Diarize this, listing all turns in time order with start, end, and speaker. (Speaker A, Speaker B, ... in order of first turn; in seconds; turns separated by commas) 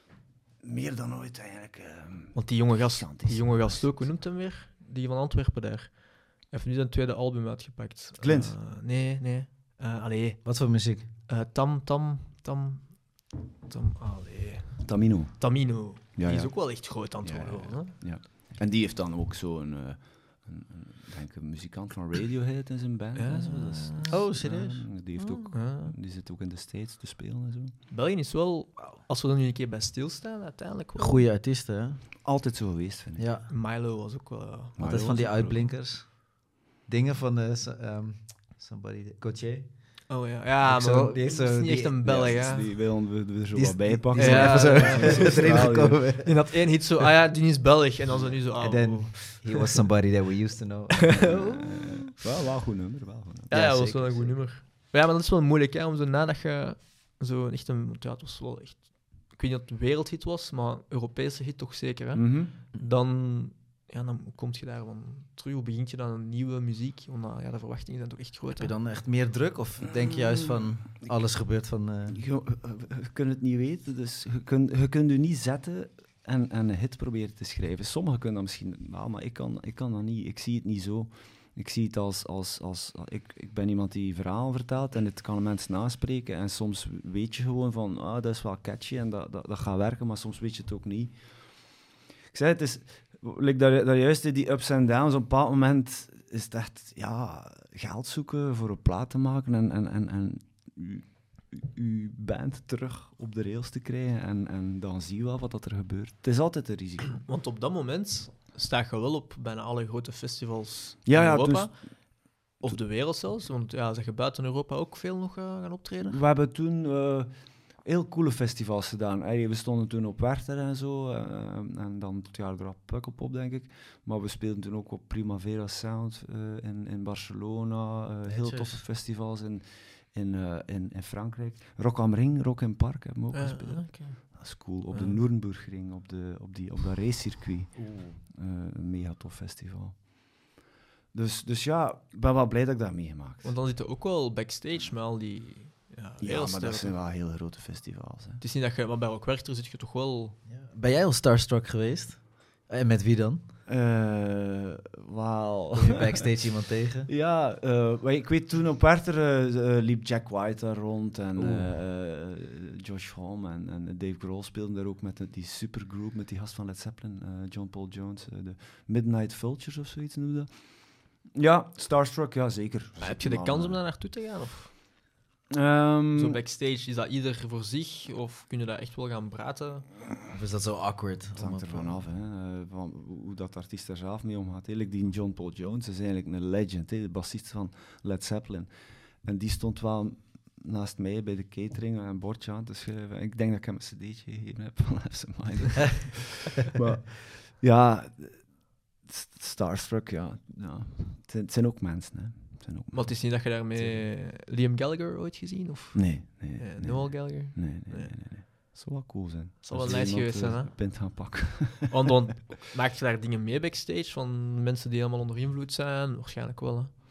Speaker A: 0.6-4.2, Speaker B: 2.3-17.9, Speaker A: 8.2-8.6, Speaker C: 10.4-11.1, Speaker A: 14.8-27.8, Speaker B: 23.1-24.2, Speaker C: 24.1-25.5, Speaker B: 25.5-26.0, Speaker B: 27.9-31.2, Speaker C: 31.0-32.2, Speaker A: 32.2-33.3, Speaker C: 33.2-33.5, Speaker B: 33.5-35.1, Speaker A: 34.8-35.7, Speaker C: 34.8-47.1, Speaker B: 40.1-42.7, Speaker A: 42.0-46.3, Speaker B: 44.1-45.5, Speaker B: 46.2-49.6, Speaker A: 48.1-48.4, Speaker C: 48.2-52.0, Speaker B: 51.2-51.5, Speaker A: 51.6-53.8, Speaker B: 53.5-68.8, Speaker C: 53.5-54.5, Speaker A: 62.1-62.5, Speaker C: 68.6-72.2, Speaker A: 70.0-70.6, Speaker A: 72.1-107.3, Speaker B: 107.2-116.2, Speaker A: 111.0-112.8, Speaker A: 116.0-140.5, Speaker C: 128.3-128.8, Speaker B: 133.3-135.2, Speaker C: 137.8-138.2, Speaker A: 141.1-143.6, Speaker B: 143.4-147.0, Speaker A: 146.2-148.4, Speaker B: 148.4-150.4, Speaker C: 150.4-153.5, Speaker A: 153.7-156.5, Speaker C: 155.7-157.1, Speaker A: 157.1-173.9, Speaker C: 161.4-161.7, Speaker B: 173.0-174.7, Speaker A: 175.5-176.4, Speaker B: 176.1-179.9, Speaker C: 180.3-182.0, Speaker A: 181.4-203.2, Speaker B: 202.9-208.2, Speaker C: 203.8-204.1, Speaker A: 205.9-212.0, Speaker B: 209.6-216.9